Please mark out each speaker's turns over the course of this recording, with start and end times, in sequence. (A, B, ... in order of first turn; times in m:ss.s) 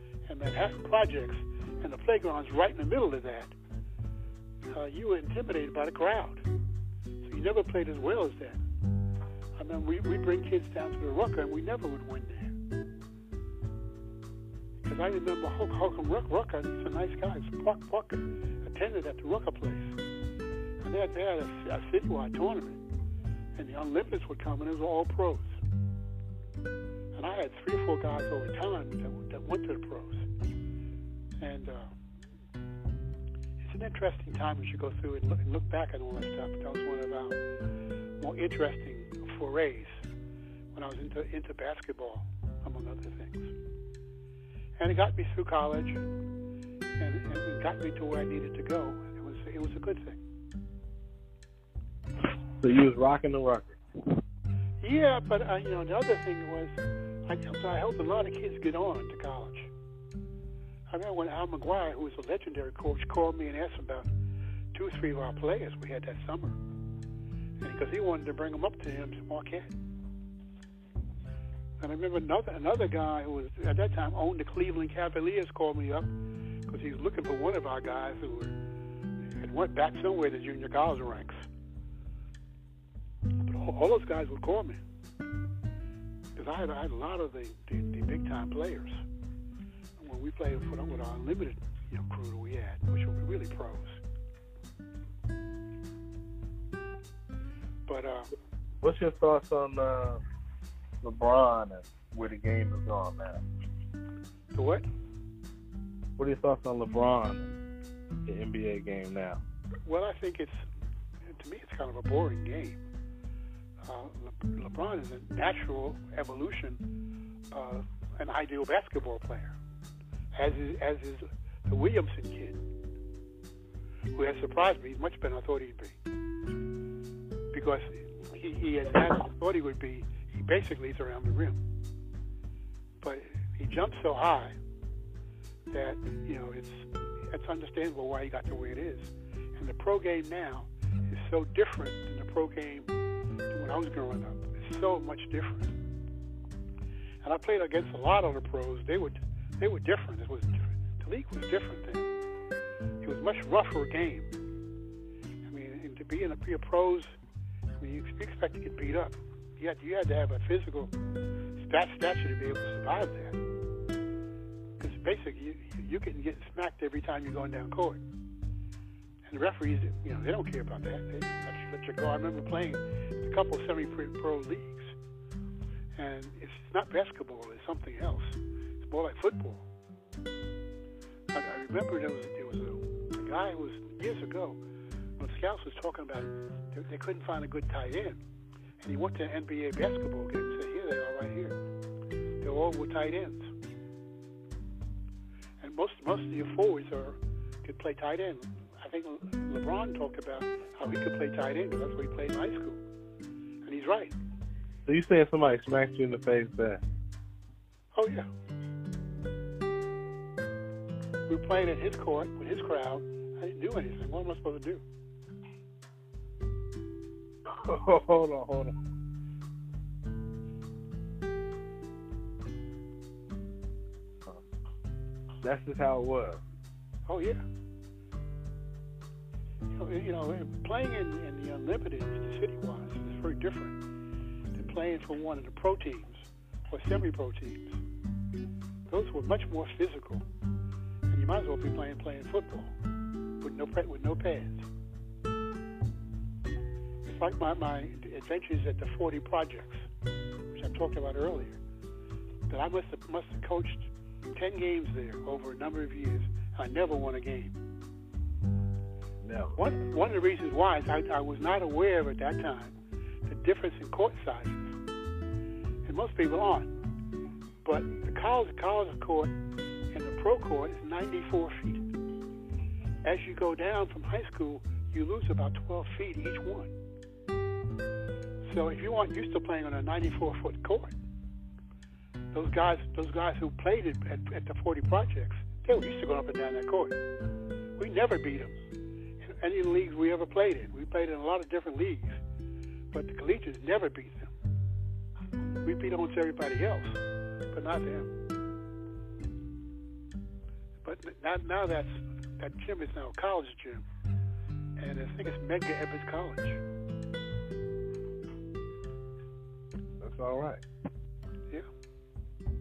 0:00.3-0:03.5 A
0:04.7-0:06.4 A
0:07.2-0:08.6 A
0:09.6-0:12.5 A
0:14.8-0:20.0 A
0:20.8-0:22.8 A
0:23.6-0:25.6 A
0:27.1-0:30.3 A
0:31.4-0:31.9 A
0:33.6-0:37.4 A
0:38.2-0:40.0 A
0:40.7-0:43.5 A
0:44.8-0:46.0 A
0:47.0-0:50.2 A
0:52.6-0:53.8 B
0:54.8-0:56.8 A
0:57.3-0:59.7 A
1:00.9-1:04.1 A
1:04.7-1:06.6 A
1:07.6-1:09.7 A
1:11.8-1:16.1 A
1:16.7-1:18.5 A
1:19.4-1:21.4 A
1:23.4-1:24.8 A
1:26.4-1:29.0 A
1:30.0-1:34.0 A
1:37.9-1:38.3 A
1:38.8-1:40.2 B
1:41.0-1:43.4 B
1:44.5-1:44.8 A
1:46.2-1:47.6 B
1:48.2-1:49.4 B
1:49.8-1:50.6 A
1:51.3-1:52.8 A
1:53.8-1:56.8 A
1:57.5-1:59.5 A
2:00.3-2:02.6 A
2:04.1-2:06.0 A
2:07.5-2:11.6 A
2:13.0-2:14.5 A
2:15.7-2:22.9 A
2:23.5-2:25.7 A
2:27.2-2:32.1 A
2:33.0-2:34.3 A
2:35.4-2:37.2 A
2:37.8-2:40.9 A
2:41.6-2:43.4 A
2:44.8-2:48.0 A
2:49.3-2:54.9 A
2:56.0-2:59.6 A
3:01.3-3:04.6 A
3:05.2-3:08.2 A
3:08.8-3:11.6 A
3:12.4-3:13.5 A
3:15.6-3:22.8 A
3:23.6-3:24.1 A
3:24.8-3:26.8 B
3:27.9-3:28.3 A
3:31.3-3:34.8 A
3:37.4-3:38.7 B
3:45.4-3:46.4 B
3:47.0-3:47.4 A
3:49.7-3:53.8 A
3:54.5-3:57.8 A
3:58.9-4:00.2 A
4:01.1-4:02.7 A
4:03.4-4:04.7 A
4:07.0-4:09.9 A
4:10.5-4:11.6 A
4:12.5-4:17.5 A
4:19.2-4:19.6 B
4:19.6-4:22.7 A
4:23.2-4:24.8 A
4:25.8-4:26.7 A
4:27.6-4:29.3 A
4:29.9-4:31.9 A
4:33.0-4:36.7 A
4:38.5-4:41.0 A
4:42.3-4:47.0 A
4:47.8-4:48.6 A
4:49.2-4:52.2 A
4:52.9-4:54.3 A
4:55.6-4:57.0 A
4:57.5-4:58.1 A
5:00.8-5:03.8 A
5:04.8-5:06.6 A
5:10.0-5:10.6 B